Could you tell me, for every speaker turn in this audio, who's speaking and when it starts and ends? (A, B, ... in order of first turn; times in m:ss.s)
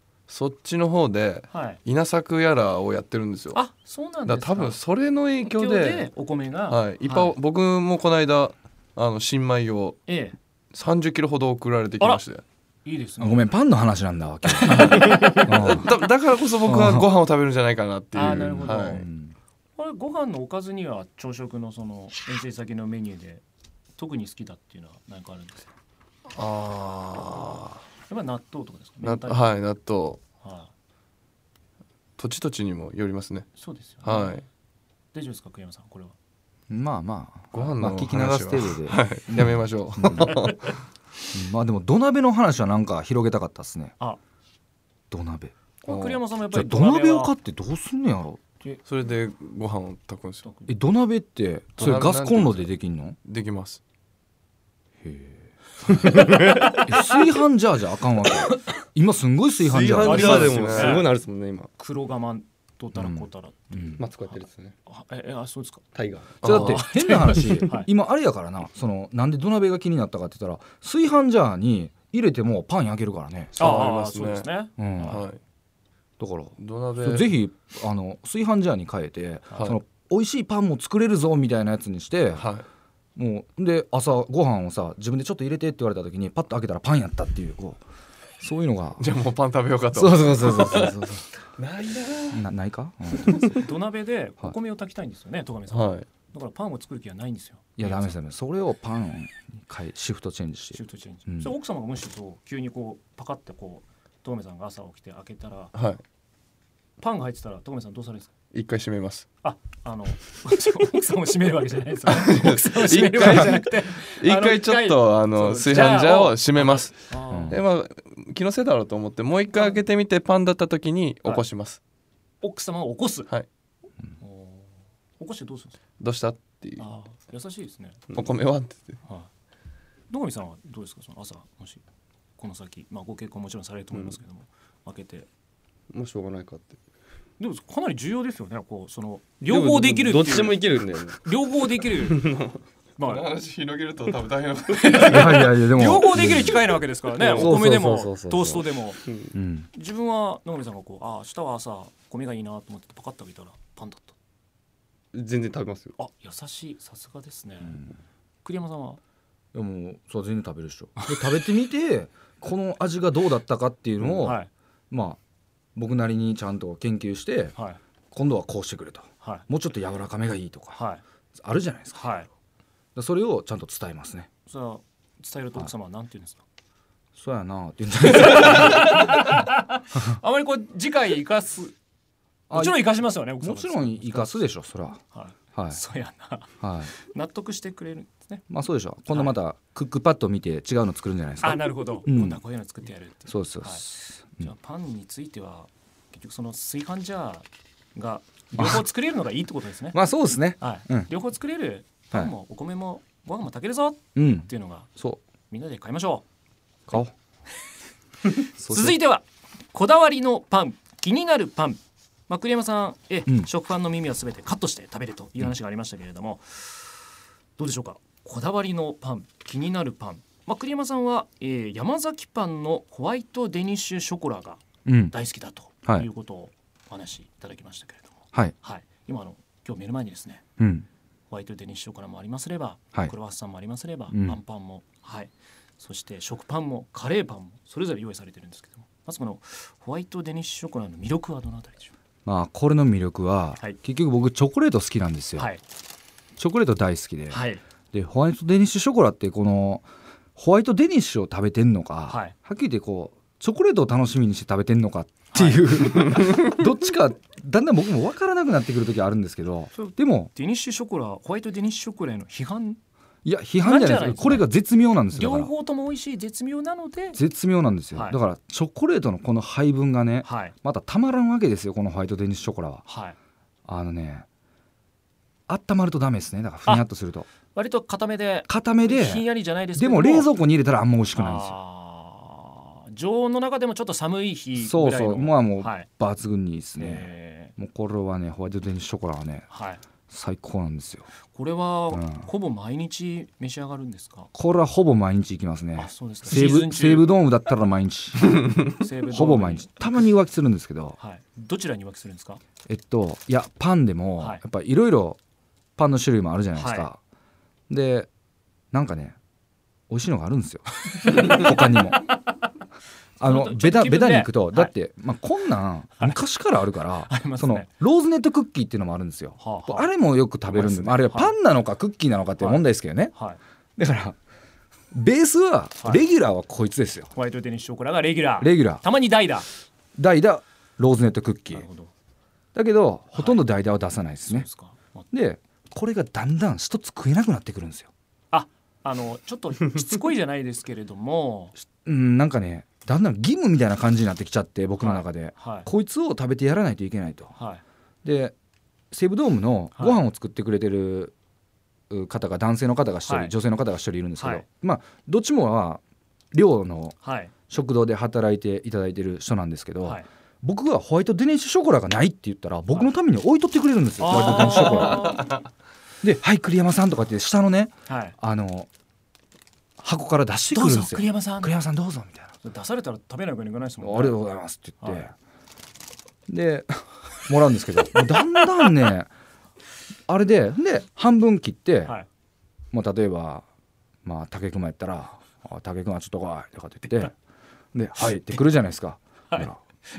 0:00.3-0:03.6 A
0:01.5-0:01.8 B
0:03.5-0:04.8 B
0:04.2-0:06.1 A
0:05.4-0:07.3 B
0:06.7-0:10.0 A
0:10.1-0:10.4 B
0:10.7-0:12.4 A
0:12.8-0:13.5 B
0:13.2-0:15.9 C
0:14.6-0:15.7 B
0:14.7-0:19.0 A
0:16.6-0:17.1 C
0:18.1-0:19.1 B
0:18.2-0:19.4 C
0:19.8-0:23.4 B
0:24.0-0:25.7 B
0:26.3-0:27.8 A
0:28.1-0:29.4 B
0:29.0-0:30.2 A
0:30.4-0:30.7 B
0:32.2-0:34.4 A
0:33.6-0:34.4 B
0:35.1-0:36.1 B
0:36.7-0:40.4 C
0:37.5-0:40.7 A
0:41.3-0:43.9 C
0:45.1-0:45.5 C
0:45.8-0:47.3 B
0:45.9-0:46.2 A
0:46.5-0:48.4 C
0:48.8-0:50.4 A
0:50.4-0:50.7 B
0:50.7-0:53.2 C
0:51.8-0:52.7 A
0:53.2-0:53.8 A
0:55.0-1:00.7 C
0:55.9-0:57.2 B
0:56.1-0:56.7 D
0:59.6-1:01.7 D
1:00.0-1:01.1 B
1:00.0-1:01.1 A
1:01.8-1:05.8 B
1:02.9-1:04.0 C
1:04.0-1:04.7 D
1:05.9-1:06.4 D
1:06.4-1:06.8 A
1:06.4-1:13.6 C
1:06.4-1:07.9 B
1:13.6-1:15.2 B
1:13.6-1:14.5 A
1:14.8-1:15.2 C
1:15.0-1:15.4 A
1:16.2-1:22.5 C
1:16.6-1:17.3 A
1:22.4-1:22.6 A
1:23.2-1:27.8 C
1:28.4-1:29.0 C
1:29.0-1:32.5 A
1:29.9-1:31.2 C
1:32.3-1:33.6 C
1:33.4-1:38.1 B
1:35.7-1:36.0 A
1:37.8-1:41.5 C
1:40.7-1:45.7 B
1:45.7-1:46.0 A
1:47.0-1:48.3 B
1:48.5-1:49.3 A
1:49.4-1:57.6 B
1:52.1-2:01.8 A
1:57.3-1:57.6 C
1:59.5-1:59.8 B
2:02.4-2:03.3 B
2:04.2-2:05.8 B
2:06.0-2:06.8 A
2:06.8-2:08.0 B
2:08.1-2:09.0 A
2:10.1-2:11.8 B
2:12.4-2:15.3 B
2:15.9-2:16.8 D
2:17.4-2:20.6 B
2:19.5-2:21.3 D
2:21.2-2:22.2 B
2:21.9-2:22.6 D
2:23.0-2:23.2 B
2:23.0-2:25.4 A
2:24.7-2:29.0 B
2:25.0-2:26.6 C
2:27.1-2:29.3 D
2:27.3-2:28.5 C
2:29.3-2:29.7 C
2:29.7-2:34.1 B
2:35.1-2:36.0 D
2:36.0-2:37.8 B
2:38.4-2:39.0 B
2:39.5-2:44.4 C
2:41.0-2:41.3 B
2:44.2-2:44.5 B
2:44.9-2:45.2 C
2:45.8-2:47.5 C
2:48.1-2:50.8 C
2:50.7-2:51.0 B
2:51.4-2:52.0 C
2:51.9-2:52.3 B
2:52.9-2:54.3 C
2:54.4-2:56.4 B
2:57.1-2:59.3 C
2:58.0-3:01.7 B
3:02.5-3:05.0 C
3:02.5-3:04.5 B
3:05.0-3:08.4 B
3:05.5-3:05.8 C
3:06.6-3:06.9 C
3:08.5-3:12.4 C
3:11.4-3:13.8 B
3:13.3-3:14.5 C
3:14.4-3:20.0 B
3:18.5-3:18.8 C
3:19.9-3:21.1 C
3:20.6-3:24.9 B
3:24.1-3:25.2 C
3:25.5-3:26.2 B
3:28.3-3:50.4 B
3:28.6-3:29.0 C
3:44.8-3:45.1 C
3:50.6-3:50.9 C
3:51.3-4:01.9 B
3:54.1-3:54.4 C
4:02.2-4:05.5 C
4:06.4-4:20.3 C
4:07.3-4:07.6 B
4:12.1-4:12.3 B
4:15.3-4:16.2 B
4:19.7-4:22.8 B
4:23.2-4:25.5 C
4:23.6-4:24.5 B
4:25.1-4:27.2 B
4:27.1-4:32.8 C
4:27.9-4:28.2 B
4:30.2-4:30.5 B
4:32.8-4:33.2 B
4:33.6-4:34.2 C
4:35.5-4:37.2 C
4:37.5-4:40.3 B
4:38.5-4:41.5 C
4:41.1-4:45.9 B
4:44.6-4:49.5 C
4:46.8-4:47.5 B
4:49.5-4:49.8 B
4:50.1-4:51.1 C
4:51.3-4:54.3 B
4:51.9-4:52.3 C
4:54.3-5:01.0 C
4:55.8-4:57.1 B
4:58.7-5:00.1 B
5:01.0-5:02.4 B
5:02.7-5:05.2 C
5:05.8-5:07.0 C
5:06.5-5:06.9 B
5:07.7-5:08.1 C
5:08.7-5:09.2 C
5:09.9-5:12.1 C
5:10.9-5:12.2 B
5:13.2-5:23.1 C
5:13.2-5:14.7 B
5:17.1-5:17.7 B
5:19.4-5:19.9 B
5:20.5-5:21.3 B
5:22.4-5:23.4 B
5:23.8-5:24.2 C
5:24.9-5:27.1 C
5:27.1-5:29.5 B
5:28.4-5:28.8 C
5:30.0-5:31.6 C
5:31.5-5:31.9 B
5:32.5-5:34.5 C
5:33.1-5:33.4 B
5:34.2-5:35.0 B
5:35.1-5:37.9 C
5:38.3-5:41.5 B
5:41.7-5:47.3 C
5:44.8-5:45.7 B
5:47.3-5:47.6 B
5:48.0-5:48.3 C
5:48.9-5:51.1 C
5:49.7-5:50.0 B
5:51.9-5:55.8 C
5:53.0-5:53.3 B
5:54.2-5:54.4 B
5:56.3-5:57.0 C
5:57.0-5:57.3 B
5:57.5-6:05.2 C
6:04.0-6:05.3 B
6:04.5-6:05.3 A
6:06.0-6:08.7 C
6:07.9-6:08.2 B
6:09.8-6:12.3 C
6:10.5-6:11.5 B
6:12.4-6:14.2 B
6:13.8-6:15.1 C
6:14.8-6:15.1 B
6:16.3-6:19.1 C
6:20.1-6:21.9 C
6:22.7-6:23.4 C
6:24.0-6:27.2 C
6:27.7-6:29.6 C